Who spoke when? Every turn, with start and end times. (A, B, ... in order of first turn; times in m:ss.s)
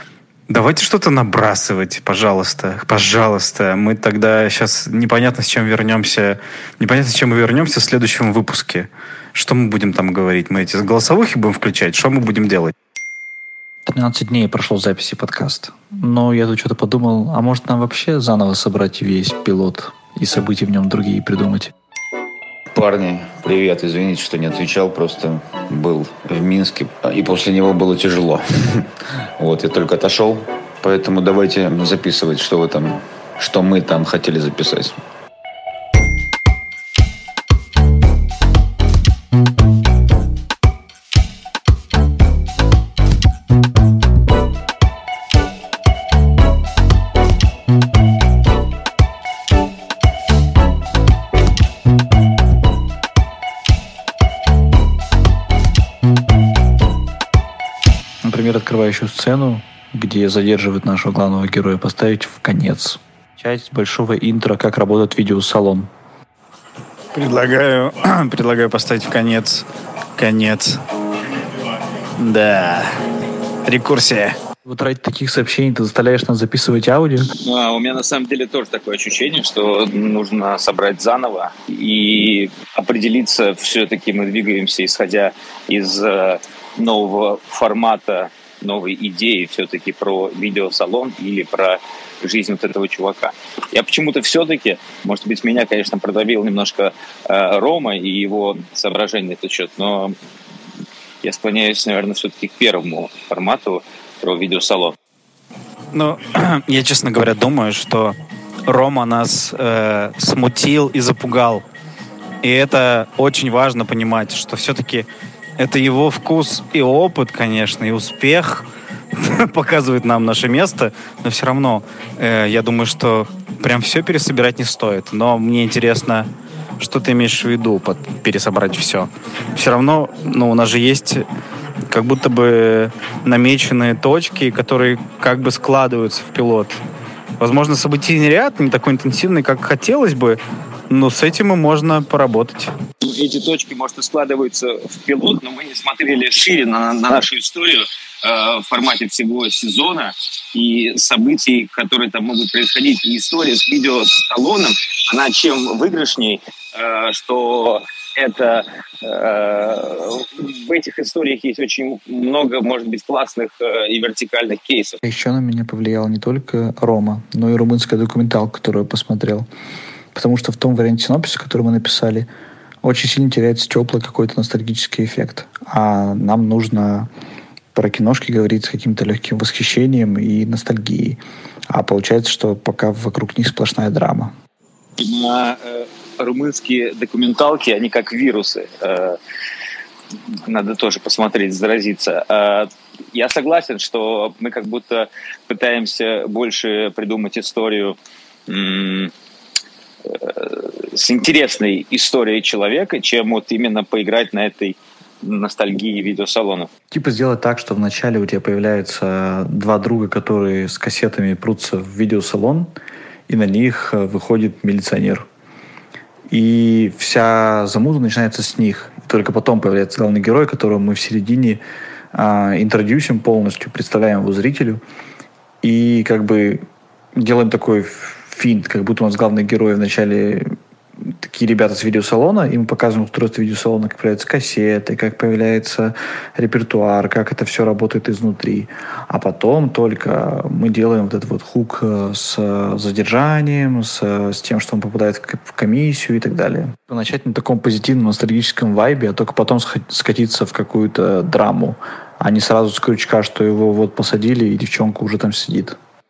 0:00.5-0:12.7 A
0:13.9-0:21.7 B
0:22.7-0:35.0 C
0:58.2-1:05.9 B
1:07.1-1:10.8 A
1:12.2-1:12.9 A
1:13.6-1:14.4 A
1:14.6-1:17.3 B
1:17.4-1:40.2 D
1:41.2-1:45.0 D
1:45.9-1:51.6 A
1:52.4-2:11.2 A
2:11.9-2:16.8 A
2:17.4-2:22.7 A
2:23.0-2:45.0 D
2:45.0-2:49.5 B
2:50.1-2:52.3 B
2:52.8-2:57.1 B
2:57.7-3:04.3 B
3:05.0-3:09.2 D
3:10.3-3:18.0 D
3:18.5-3:19.1 D
3:20.0-3:26.7 D
3:26.9-3:32.7 B
3:33.3-3:35.3 B
3:36.3-3:44.8 B
3:45.6-4:15.8 B